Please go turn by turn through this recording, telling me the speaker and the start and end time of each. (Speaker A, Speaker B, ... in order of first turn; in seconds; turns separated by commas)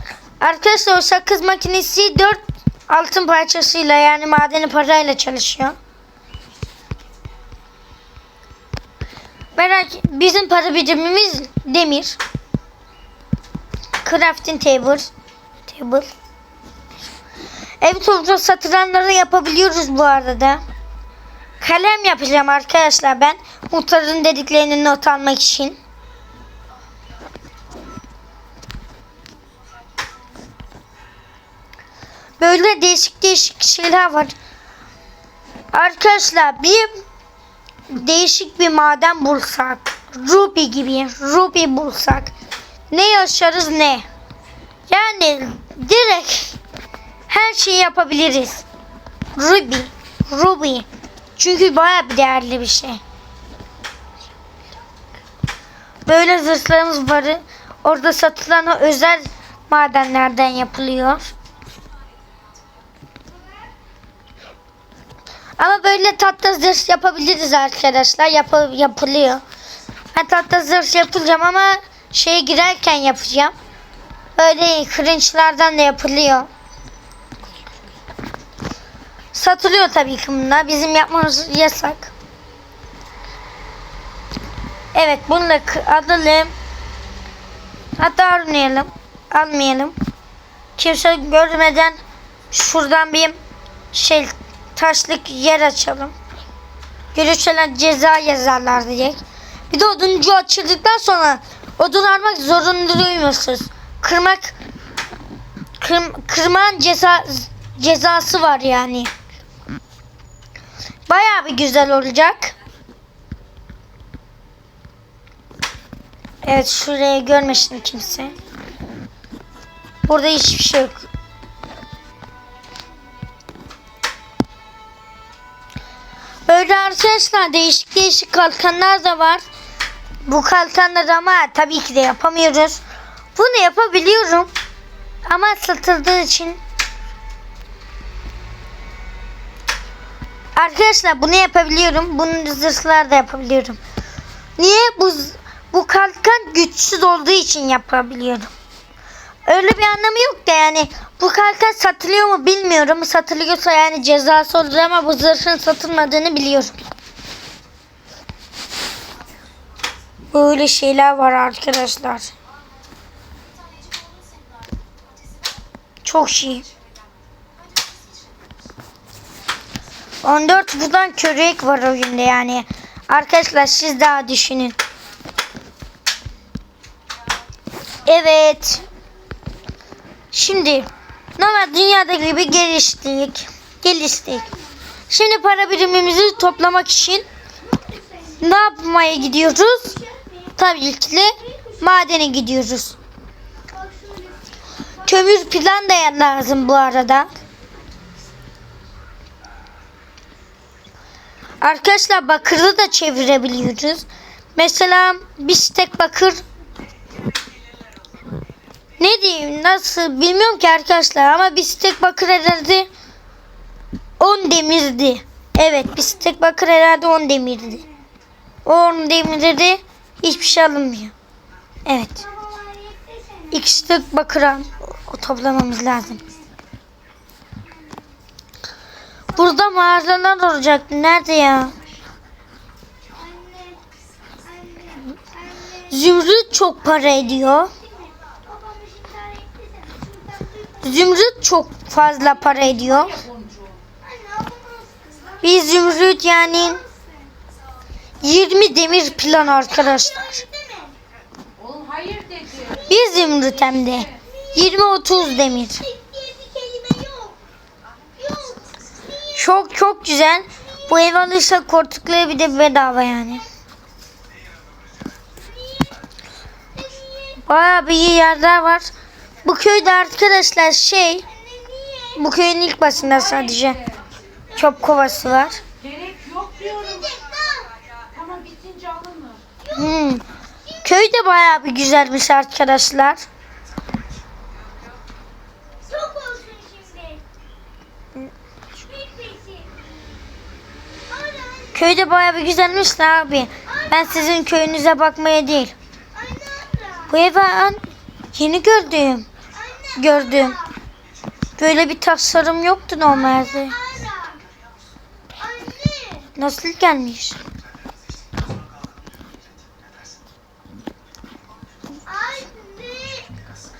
Speaker A: 0.4-5.8, Speaker A: 9.6-12.2, Speaker A: 14.0-15.1, Speaker A: 15.7-16.1, Speaker A: 17.8-20.6, Speaker A: 21.6-25.8, Speaker A: 32.4-34.3, Speaker A: 35.7-36.9, Speaker A: 37.9-42.3, Speaker A: 42.9-44.0, Speaker A: 44.9-46.6, Speaker A: 47.3-48.6, Speaker A: 49.4-50.9, Speaker A: 51.4-53.0, Speaker A: 56.0-61.3, Speaker A: 65.6-69.4, Speaker A: 70.1-73.5, Speaker A: 74.4-76.5, Speaker A: 79.3-82.1, Speaker A: 84.9-86.5, Speaker A: 88.0-89.9, Speaker A: 90.8-92.0, Speaker A: 92.5-93.4, Speaker A: 93.9-96.1, Speaker A: 97.1-104.5, Speaker A: 105.8-109.1, Speaker A: 111.1-112.5, Speaker A: 116.4-118.3, Speaker A: 120.0-121.0, Speaker A: 126.5-129.4, Speaker A: 130.2-132.8, Speaker A: 133.3-134.5, Speaker A: 135.2-136.6, Speaker A: 140.6-143.8, Speaker A: 144.6-148.5, Speaker A: 149.4-156.8, Speaker A: 160.3-162.3, Speaker A: 166.0-166.7, Speaker A: 170.2-174.8, Speaker A: 178.1-178.8, Speaker A: 180.3-184.5, Speaker A: 185.1-187.2, Speaker B: 187.7-188.4, Speaker A: 188.4-190.0, Speaker B: 190.0-190.4, Speaker A: 190.6-192.9, Speaker B: 191.4-191.7, Speaker B: 193.7-194.4, Speaker A: 195.0-197.3, Speaker A: 201.6-206.4, Speaker A: 209.0-212.9, Speaker A: 214.2-217.8, Speaker A: 218.6-221.1, Speaker A: 221.8-222.2, Speaker B: 222.3-223.5, Speaker A: 223.5-226.2, Speaker A: 229.3-231.7, Speaker B: 233.1-233.8, Speaker B: 234.4-235.8, Speaker A: 235.9-237.7, Speaker B: 237.8-240.8, Speaker A: 240.8-243.2, Speaker C: 243.0-243.8, Speaker B: 244.0-245.4, Speaker A: 245.4-246.8, Speaker B: 246.2-247.3, Speaker A: 248.2-250.4, Speaker B: 250.4-250.9, Speaker C: 251.6-252.8, Speaker A: 252.9-255.8, Speaker B: 255.9-257.4, Speaker B: 258.2-258.6, Speaker A: 259.3-263.4, Speaker A: 267.4-268.9, Speaker A: 269.4-271.2, Speaker B: 271.5-272.1, Speaker A: 272.1-273.8, Speaker A: 274.5-275.6, Speaker C: 275.8-277.0, Speaker B: 276.9-277.7, Speaker C: 278.1-279.4, Speaker A: 279.7-280.2, Speaker A: 280.8-283.2, Speaker B: 285.8-287.2, Speaker B: 288.9-289.7, Speaker B: 291.1-291.7, Speaker A: 291.7-295.7, Speaker B: 296.2-297.1, Speaker A: 297.1-297.8, Speaker A: 298.3-299.3, Speaker B: 299.6-300.6, Speaker A: 299.9-300.6, Speaker A: 301.6-303.8, Speaker B: 303.8-304.4, Speaker B: 305.4-306.3, Speaker A: 306.4-307.4, Speaker B: 312.0-313.4